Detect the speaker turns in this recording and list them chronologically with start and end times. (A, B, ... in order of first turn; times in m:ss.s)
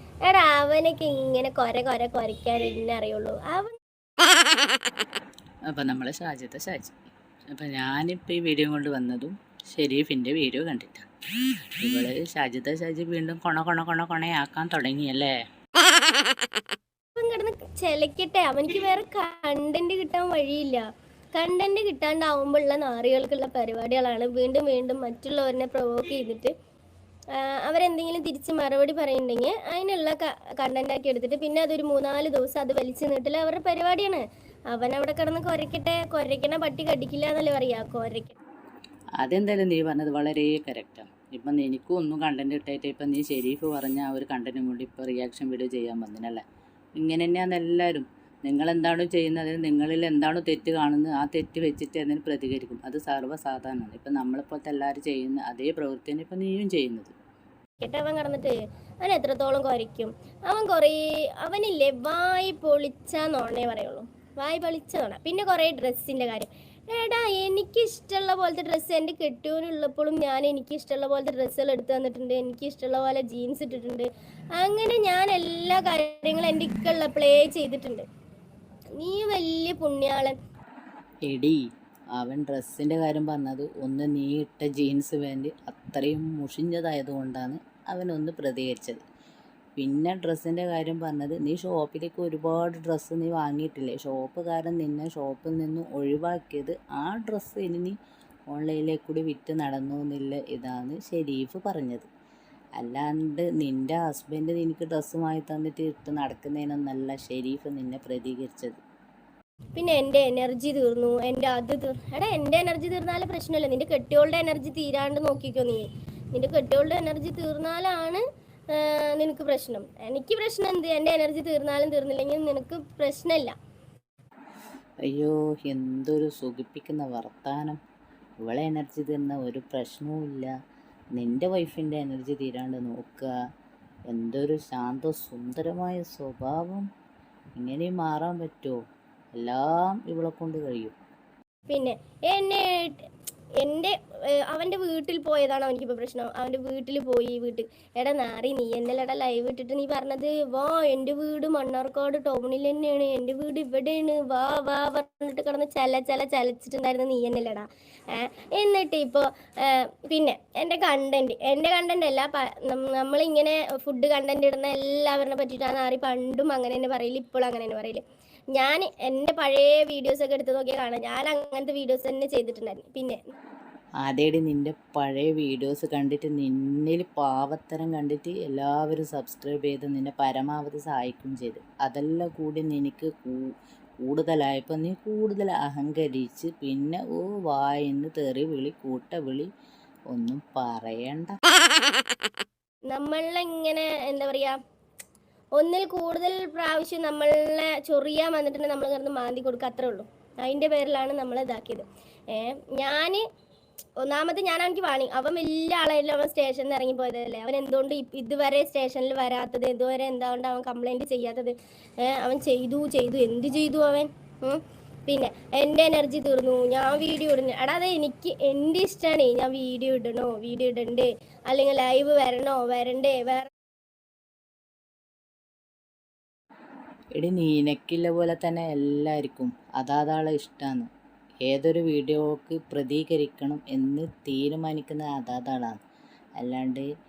0:00.2-0:03.8 A
0:05.7-0:06.9 B
0:07.5-0:11.0 B
0:11.8-0:16.4 B
0:17.2-0:26.5 A
0:27.3-0:38.4 A
0:39.2-0:46.4 B
0:46.9-0:57.1 B
0:57.8-1:18.0 A
1:19.0-1:20.4 A
1:21.2-1:21.6 B
1:22.2-1:29.0 B
1:29.8-1:38.0 B
1:38.5-1:42.1 B
1:42.8-1:48.8 B
1:49.7-2:03.5 A
2:05.1-2:07.8 B
2:08.4-2:10.5 B
2:11.2-2:13.3 B
2:14.1-2:16.9 B
2:17.6-2:18.8 B
2:19.3-2:20.9 B
2:21.7-2:23.1 A
2:23.6-2:48.0 A
2:48.5-2:53.2 A
2:54.0-3:03.4 B
3:04.1-3:09.5 B
3:10.1-3:11.4 B
3:12.9-3:14.6 A
3:15.6-3:23.2 A
3:24.0-3:43.5 A
3:47.2-3:50.9 B
3:51.4-3:55.8 B
3:56.4-3:56.9 B